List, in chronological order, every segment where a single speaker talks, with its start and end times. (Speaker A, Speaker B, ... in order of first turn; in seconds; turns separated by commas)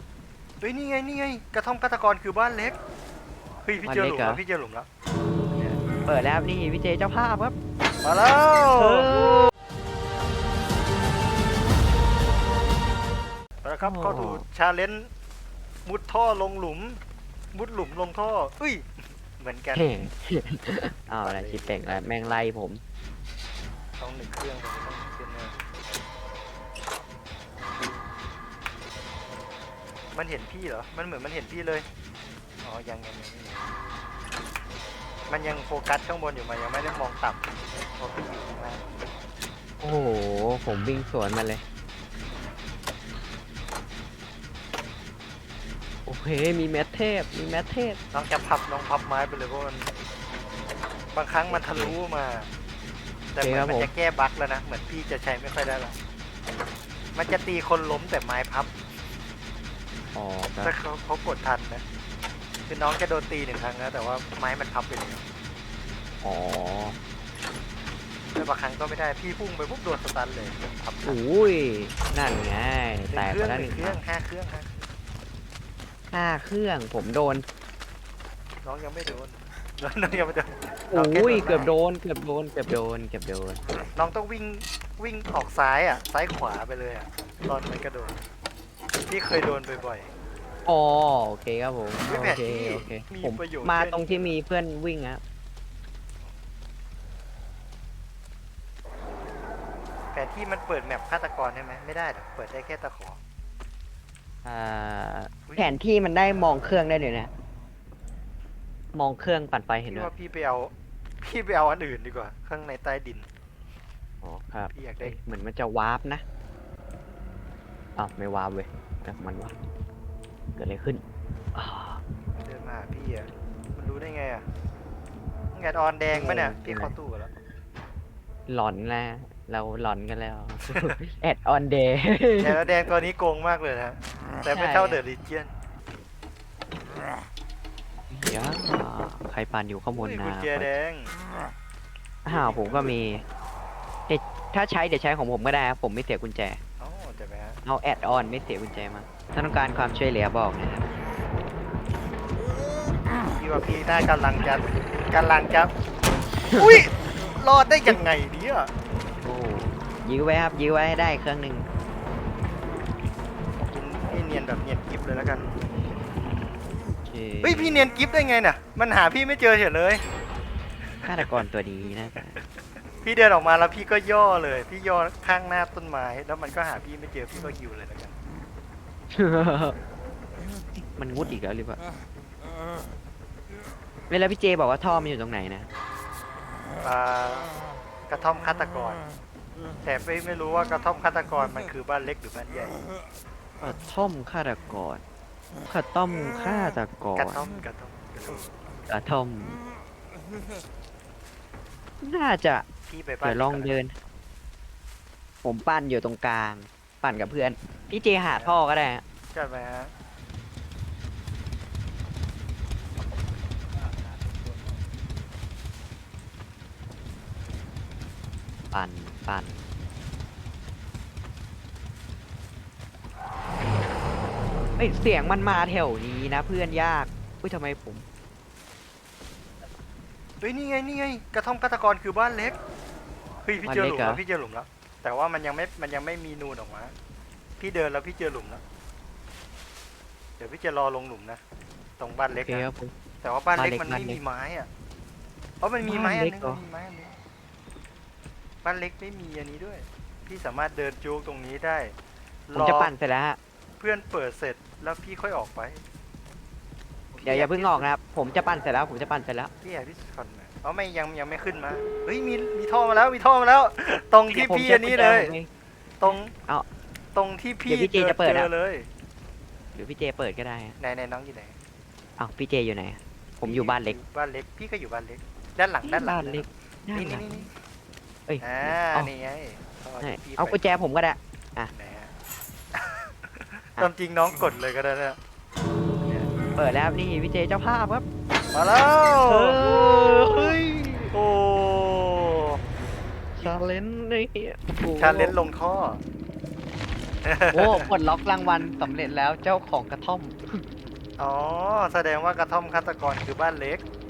Speaker A: 0.6-2.8, Speaker A: 3.6-4.9, Speaker B: 3.8-4.4, Speaker B: 5.5-7.6, Speaker A: 8.0-9.1, Speaker B: 8.7-9.5, Speaker A: 13.6-15.1, Speaker B: 13.8-14.4, Speaker A: 15.9-17.0, Speaker A: 17.5-19.9, Speaker B: 19.7-22.8, Speaker A: 21.1-22.4, Speaker A: 24.0-25.6, Speaker A: 30.1-31.9, Speaker A: 32.6-33.6, Speaker A: 35.3-38.9, Speaker B: 39.8-41.6, Speaker B: 46.1-48.0, Speaker A: 48.1-49.9, Speaker A: 51.1-52.5, Speaker B: 51.5-52.0, Speaker A: 53.3-56.0, Speaker B: 53.4-53.9, Speaker A: 57.1-58.7, Speaker B: 60.1-60.7, Speaker A: 60.6-61.8, Speaker A: 62.7-65.2, Speaker B: 66.2-67.0, Speaker A: 68.3-71.2, Speaker B: 71.0-74.0, Speaker A: 73.1-74.9, Speaker B: 76.1-77.5, Speaker A: 78.6-81.7, Speaker B: 80.9-83.6, Speaker A: 84.0-88.2, Speaker A: 89.1-90.1, Speaker B: 90.7-95.2, Speaker A: 92.0-94.3, Speaker A: 100.1-103.2, Speaker B: 104.5-107.3, Speaker A: 105.5-105.8, Speaker B: 108.9-110.1, Speaker A: 109.9-113.3, Speaker B: 114.2-116.2, Speaker A: 114.7-115.2, Speaker B: 118.0-119.6, Speaker B: 120.6-121.0, Speaker B: 121.5-122.0, Speaker A: 122.4-124.5, Speaker A: 125.5-127.3, Speaker B: 126.1-127.0, Speaker B: 128.5-132.7, Speaker A: 132.4-135.5, Speaker B: 134.5-135.0, Speaker B: 138.1-140.8, Speaker A: 139.9-141.2, Speaker B: 142.2-143.2, Speaker A: 142.3-143.0, Speaker B: 144.1-146.6, Speaker A: 146.8-147.6, Speaker B: 147.6-150.9, Speaker A: 153.4-155.7, Speaker B: 156.5-157.1, Speaker A: 156.6-158.7, Speaker B: 159.2-161.7, Speaker A: 163.7-165.5, Speaker B: 167.0-167.9, Speaker A: 167.4-170.1, Speaker A: 171.0-171.4, Speaker B: 171.1-172.4, Speaker A: 172.2-178.2, Speaker B: 179.1-179.8, Speaker B: 180.9-181.8, Speaker B: 184.1-185.7, Speaker A: 186.8-187.5, Speaker A: 188.1-189.0, Speaker A: 189.8-192.8, Speaker B: 193.6-195.0, Speaker B: 195.7-197.5, Speaker A: 197.2-198.5, Speaker B: 198.9-199.6, Speaker B: 202.0-202.7, Speaker A: 202.9-203.8, Speaker B: 203.2-203.9, Speaker B: 205.4-209.0, Speaker A: 208.2-208.6, Speaker A: 209.3-209.9, Speaker B: 218.7-219.6, Speaker B: 224.8-228.1, Speaker A: 230.4-232.6, Speaker A: 233.4-236.9, Speaker B: 233.6-234.2, Speaker A: 237.6-238.6, Speaker A: 240.4-241.4, Speaker A: 242.0-242.7, Speaker B: 242.3-242.9, Speaker A: 243.2-244.7, Speaker B: 243.5-244.2, Speaker A: 245.6-247.2, Speaker B: 245.8-246.6, Speaker A: 248.6-251.9, Speaker A: 252.5-252.9, Speaker B: 252.6-253.4, Speaker A: 253.8-255.8, Speaker A: 257.1-257.9, Speaker B: 257.2-259.5, Speaker A: 259.6-265.4, Speaker B: 264.3-265.5, Speaker A: 266.0-266.3, Speaker B: 266.1-266.7, Speaker A: 267.1-268.9, Speaker B: 267.7-268.5, Speaker B: 269.8-270.8, Speaker A: 270.8-271.6, Speaker B: 272.2-274.0, Speaker A: 273.4-277.5, Speaker B: 275.8-277.4, Speaker B: 278.3-279.1, Speaker A: 278.4-280.8, Speaker B: 280.0-281.7, Speaker A: 281.7-282.1, Speaker A: 282.7-285.2, Speaker A: 286.1-286.3, Speaker B: 286.4-288.1, Speaker A: 288.5-292.6, Speaker B: 289.2-290.6, Speaker B: 293.4-295.4, Speaker A: 295.0-296.0, Speaker A: 297.2-297.9, Speaker B: 297.5-300.6, Speaker A: 301.2-303.8